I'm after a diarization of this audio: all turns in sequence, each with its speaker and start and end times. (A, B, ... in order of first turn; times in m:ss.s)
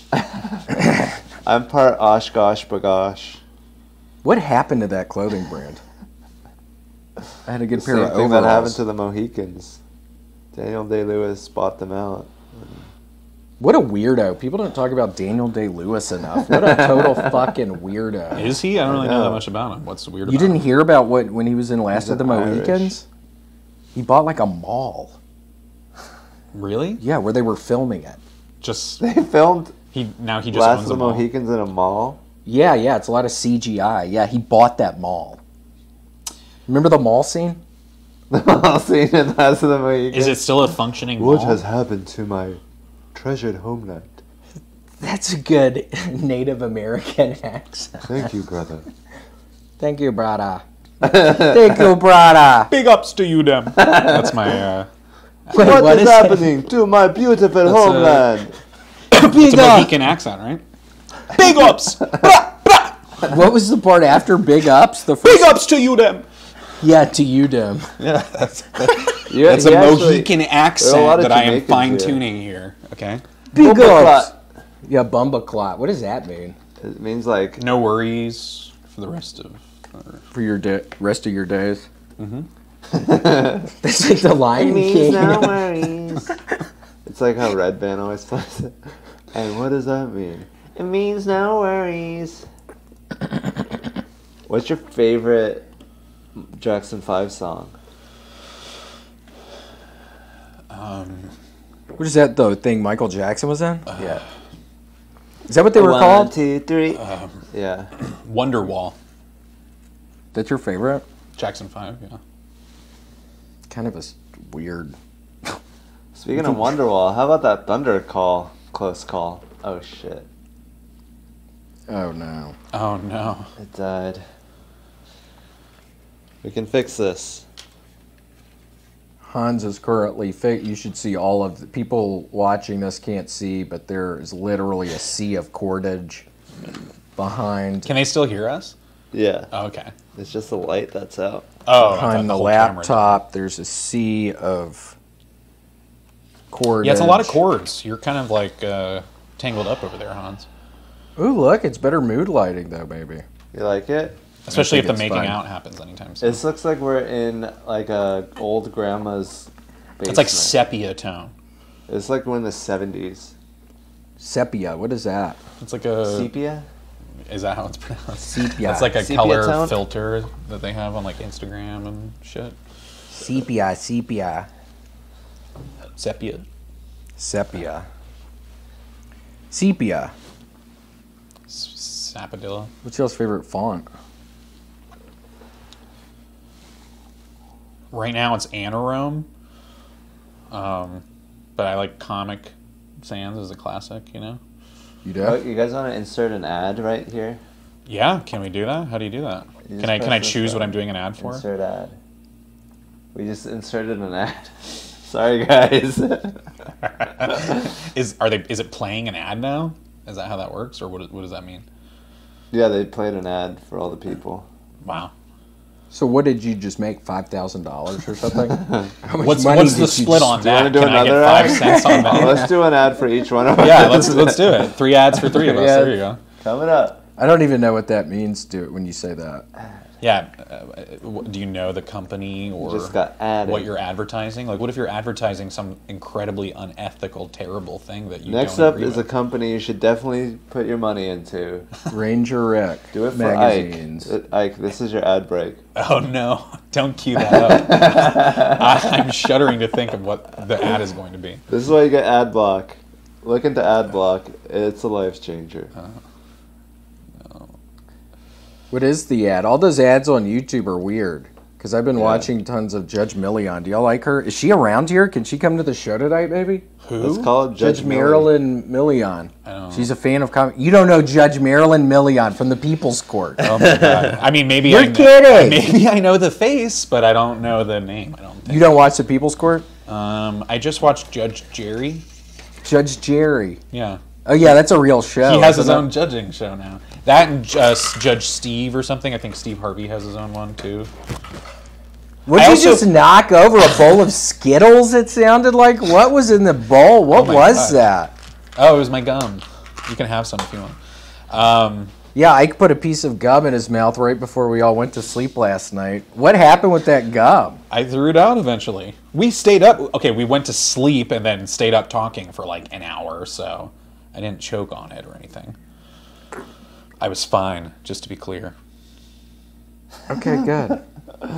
0:00.1-0:00.7 A
0:01.4-0:03.4 A
0:04.2-0:05.8 B
0:07.4-0:08.8 B
0:07.8-0:09.8 A
0:10.5-0:12.8 A
0:13.6-0:18.5 B
0:16.4-0:17.6 A
0:18.3-0:20.6 C
0:18.7-0:19.4 A
0:20.3-0:23.0 B
0:21.9-0:23.0 A
0:23.9-0:25.2 B
0:26.5-0:27.0 C
0:27.0-0:28.2 B
0:28.6-0:29.0 C
0:29.0-0:29.7 A
0:29.9-0:31.2 C
0:30.5-0:32.2 A
0:32.4-0:35.4 B
0:36.7-0:37.6 B
0:38.3-0:40.4 A
0:40.1-0:41.6 C
0:41.2-0:42.6 A
0:43.1-0:44.2 A
0:45.0-0:48.3 B
0:48.1-0:48.8 A
0:49.8-0:52.7 B
0:51.0-0:51.8 A
0:52.7-0:54.9 C
0:53.8-0:54.3 A
0:55.5-0:56.5 B
0:55.5-0:58.5 A
0:57.6-0:58.2 C
0:59.1-0:59.9 B
0:59.1-1:00.6 C
1:01.3-1:02.8 C
1:03.2-1:05.6 B
1:05.2-1:06.2 C
1:06.8-1:07.9 B
1:08.0-1:12.2 A
1:08.8-1:13.2 C
1:13.5-1:14.3 B
1:13.5-1:14.3 A
1:14.8-1:16.6 B
1:16.8-1:17.6 A
1:17.6-1:20.2 C
1:20.3-1:21.9 B
1:22.2-1:22.5 C
1:22.9-1:23.7 A
1:23.8-1:25.9 B
1:24.6-1:26.4 A
1:27.0-1:32.5 A
1:34.5-1:35.6 A
1:36.3-1:37.7 A
1:40.7-1:41.3 C
1:41.9-1:43.8 B
1:44.0-1:44.2 A
1:45.5-1:46.3 B
1:45.7-1:47.9 A
1:46.9-1:47.4 C
1:48.0-1:49.0 C
1:50.3-1:51.0 B
1:51.4-1:52.2 C
1:53.7-1:55.6 B
1:56.1-2:00.3 A
2:01.9-2:02.5 B
2:02.7-2:03.5 C
2:03.6-2:04.2 A
2:06.4-2:07.4 A
2:09.2-2:16.2 B
2:17.2-2:17.9 B
2:17.8-2:18.7 C
2:19.1-2:19.5 A
2:19.5-2:19.9 C
2:20.1-2:21.5 A
2:21.6-2:23.2 C
2:21.8-2:25.0 B
2:26.5-2:27.4 B
2:26.8-2:30.5 C
2:31.2-2:33.2 B
2:33.5-2:34.2 A
2:34.4-2:36.4 C
2:34.5-2:35.4 B
2:36.2-2:40.6 A
2:40.0-2:41.3 C
2:41.9-2:43.3 A
2:44.2-2:45.4 B
2:45.6-2:46.3 C
2:46.1-2:46.6 A
2:47.3-2:52.6 C
2:48.2-2:49.0 B
2:48.9-2:49.8 A
2:53.1-2:54.5 B
2:56.0-2:56.4 C
2:57.2-2:57.9 B
2:59.5-3:00.1 B
3:01.5-3:02.7 C
3:02.8-3:03.8 B
3:07.9-3:09.3 C
3:10.5-3:11.0 C
3:11.6-3:14.4 C
3:15.0-3:15.4 B
3:15.2-3:17.4 A
3:17.8-3:21.4 C
3:19.6-3:21.9 A
3:23.1-3:26.4 A
3:26.8-3:31.6 C
3:27.2-3:27.7 A
3:32.5-3:34.4 A
3:34.8-3:35.1 C
3:35.9-3:40.4 B
3:38.5-3:38.9 A
3:39.2-3:42.5 C
3:40.2-3:47.0 A
3:41.4-3:42.5 B
3:43.6-3:46.2 C
3:47.2-3:49.4 B
3:50.0-3:52.9 C
3:52.6-3:53.7 A
3:53.4-3:59.0 C
3:58.2-4:01.7 A
4:01.9-4:04.1 B
4:02.9-4:05.6 A
4:05.8-4:11.4 C
4:07.3-4:09.1 A
4:11.5-4:15.7 A
4:15.7-4:16.0 C
4:17.2-4:17.5 C
4:18.7-4:26.6 B
4:22.0-4:22.3 A
4:26.8-4:27.3 C
4:27.0-4:28.4 A
4:27.6-4:33.5 B
4:29.4-4:29.9 C
4:33.4-4:38.7 C
4:33.6-4:34.2 A
4:34.6-4:35.7 B
4:38.4-4:39.6 B
4:39.9-4:42.0 C
4:42.6-4:43.6 B
4:43.7-4:44.0 C
4:44.2-4:45.9 B
4:45.2-4:50.9 C
4:52.2-4:58.1 B
4:52.3-4:52.9 C
4:57.1-4:57.8 C
4:58.6-5:00.8 C
5:01.3-5:01.9 C
5:02.1-5:07.6 B
5:07.7-5:15.5 C
5:17.0-5:18.5 C
5:20.1-5:20.8 B